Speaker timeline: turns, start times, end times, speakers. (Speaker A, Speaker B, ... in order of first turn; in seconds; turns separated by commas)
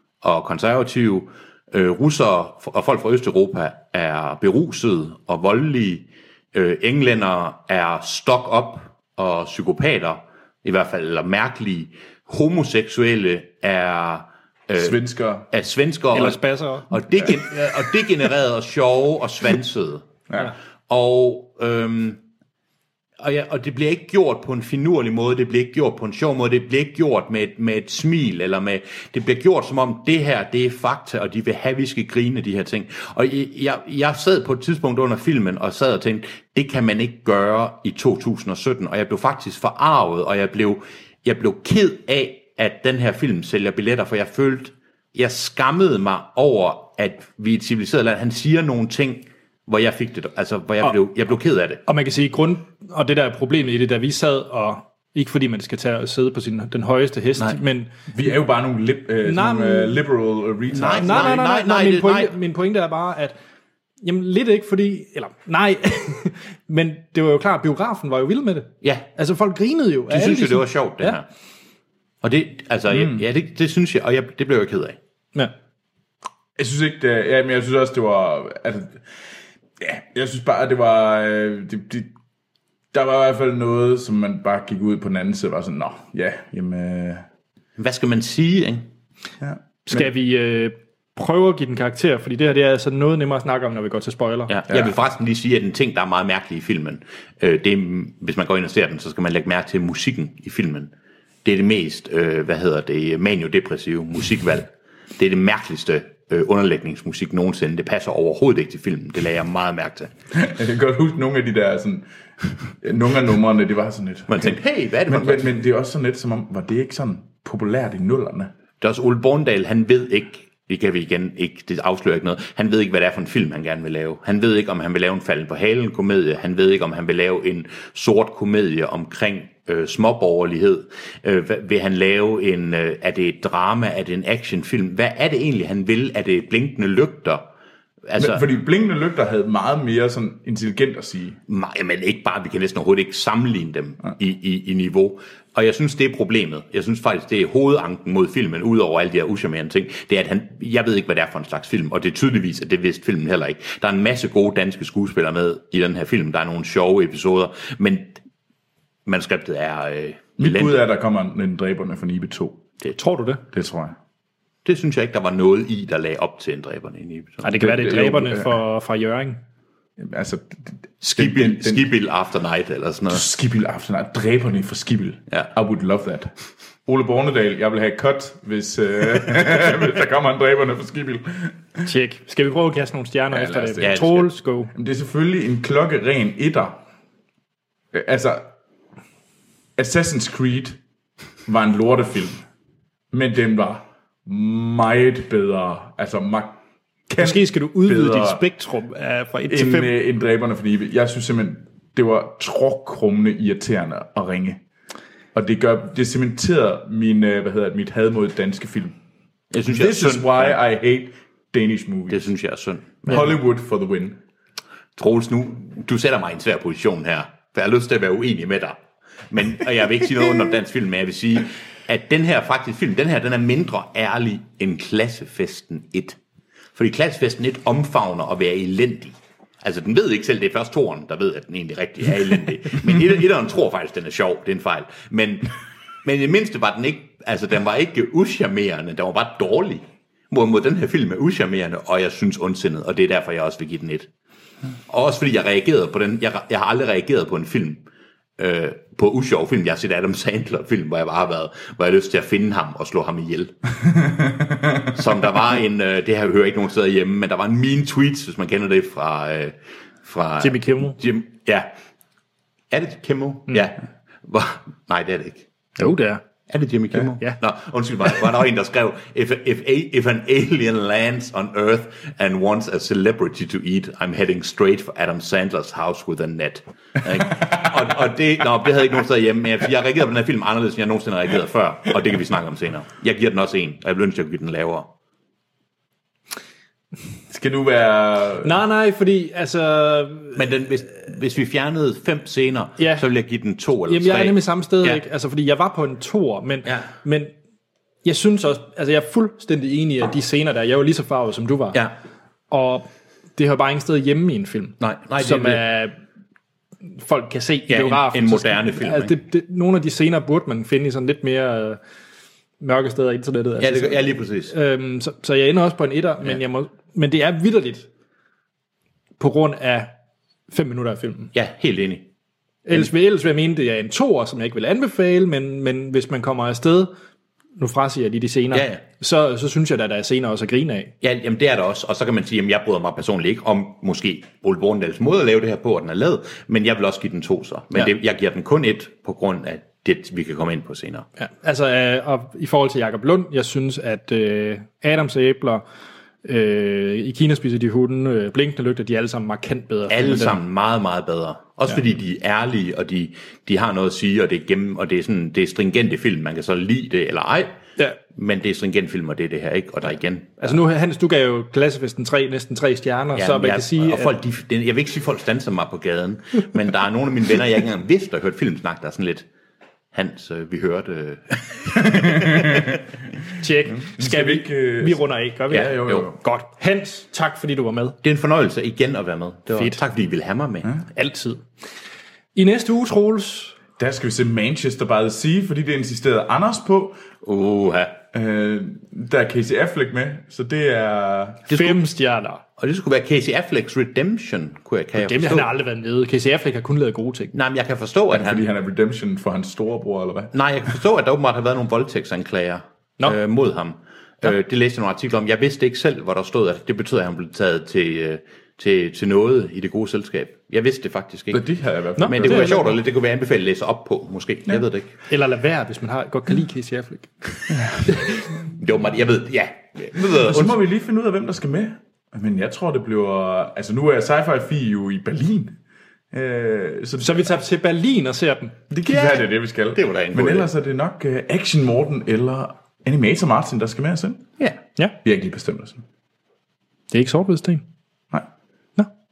Speaker A: 0.2-20.1, Speaker B: 14.8-15.5, Speaker C: 16.1-17.0, Speaker A: 20.9-22.2, Speaker A: 23.2-51.8, Speaker C: 51.9-57.9, Speaker B: 58.1-61.4, Speaker C: 59.2-60.0, Speaker A: 60.7-62.3, Speaker C: 60.8-63.4, Speaker C: 64.0-71.2, Speaker A: 68.8-69.1, Speaker A: 70.1-71.3, Speaker A: 72.2-75.0, Speaker B: 72.9-73.2, Speaker B: 76.6-79.0, Speaker B: 79.8-82.1, Speaker B: 82.9-87.3, Speaker A: 87.8-88.9, Speaker B: 89.4-90.1, Speaker C: 89.9-94.5, Speaker A: 94.5-100.9, Speaker A: 101.4-110.1, Speaker B: 110.3-112.1, Speaker B: 112.7-118.5, Speaker A: 114.3-115.5, Speaker A: 118.8-137.4, Speaker A: 138.1-138.4, Speaker B: 138.2-141.4, Speaker A: 141.5-158.2, Speaker A: 159.1-160.8, Speaker B: 160.4-162.6, Speaker C: 163.0-163.4, Speaker B: 163.5-164.0, Speaker A: 164.7-167.6, Speaker C: 167.4-169.4, Speaker B: 167.6-168.6, Speaker B: 170.0-171.9, Speaker A: 171.0-173.2, Speaker B: 173.1-176.3, Speaker B: 176.9-181.6, Speaker C: 181.8-184.7, Speaker B: 183.3-184.0, Speaker A: 183.8-184.3, Speaker B: 184.7-186.8, Speaker B: 187.9-188.5, Speaker B: 189.8-190.8, Speaker B: 191.5-192.4, Speaker B: 193.1-196.6, Speaker B: 197.1-198.4, Speaker C: 197.2-200.0, Speaker B: 199.5-204.6, Speaker B: 205.3-209.0, Speaker A: 209.5-210.6, Speaker B: 209.7-212.3, Speaker A: 212.1-213.3, Speaker B: 213.1-214.2, Speaker A: 215.0-218.8, Speaker A: 219.3-226.2, Speaker A: 226.8-235.5, Speaker A: 236.0-244.1, Speaker A: 244.9-247.8, Speaker A: 248.4-253.6, Speaker B: 254.2-254.7, Speaker A: 254.8-261.7, Speaker C: 260.4-261.0, Speaker A: 262.7-265.5, Speaker C: 265.8-266.2, Speaker A: 266.5-284.9, Speaker B: 287.3-288.5, Speaker C: 288.4-290.4, Speaker A: 290.4-295.0, Speaker C: 292.8-293.0, Speaker C: 293.9-297.3, Speaker C: 298.0-301.8, Speaker C: 302.5-306.0, Speaker A: 304.8-305.6, Speaker C: 307.0-311.8, Speaker A: 307.7-309.1, Speaker C: 312.6-317.9, Speaker A: 313.6-314.5, Speaker C: 319.2-319.9, Speaker C: 320.5-321.3, Speaker A: 321.3-322.1, Speaker C: 322.7-326.9, Speaker C: 327.6-330.9, Speaker A: 328.5-328.8, Speaker A: 331.0-341.1, Speaker C: 341.2-345.6, Speaker C: 346.2-350.4, Speaker A: 349.9-357.6, Speaker A: 358.1-360.6, Speaker C: 360.4-364.1, Speaker A: 363.2-369.3, Speaker A: 369.9-372.8, Speaker B: 372.1-372.6, Speaker C: 373.4-378.0, Speaker B: 373.8-376.1, Speaker A: 375.5-376.1, Speaker A: 378.0-380.8, Speaker C: 379.5-379.8, Speaker C: 380.9-381.4, Speaker C: 382.4-383.6, Speaker B: 383.8-387.0, Speaker A: 387.2-388.0, Speaker B: 388.1-391.4, Speaker A: 391.5-391.8, Speaker C: 391.5-392.4, Speaker A: 392.6-395.5, Speaker C: 395.0-397.3, Speaker A: 397.3-398.4, Speaker B: 398.1-400.3, Speaker A: 400.3-411.4, Speaker B: 411.3-412.7, Speaker C: 412.0-412.7, Speaker A: 412.0-414.9, Speaker C: 415.1-418.3, Speaker B: 417.5-417.8, Speaker A: 418.5-420.6, Speaker B: 419.9-425.6, Speaker B: 426.1-427.3, Speaker C: 427.0-428.6, Speaker B: 428.7-434.3, Speaker A: 428.9-430.5, Speaker B: 435.0-435.8, Speaker C: 436.9-437.6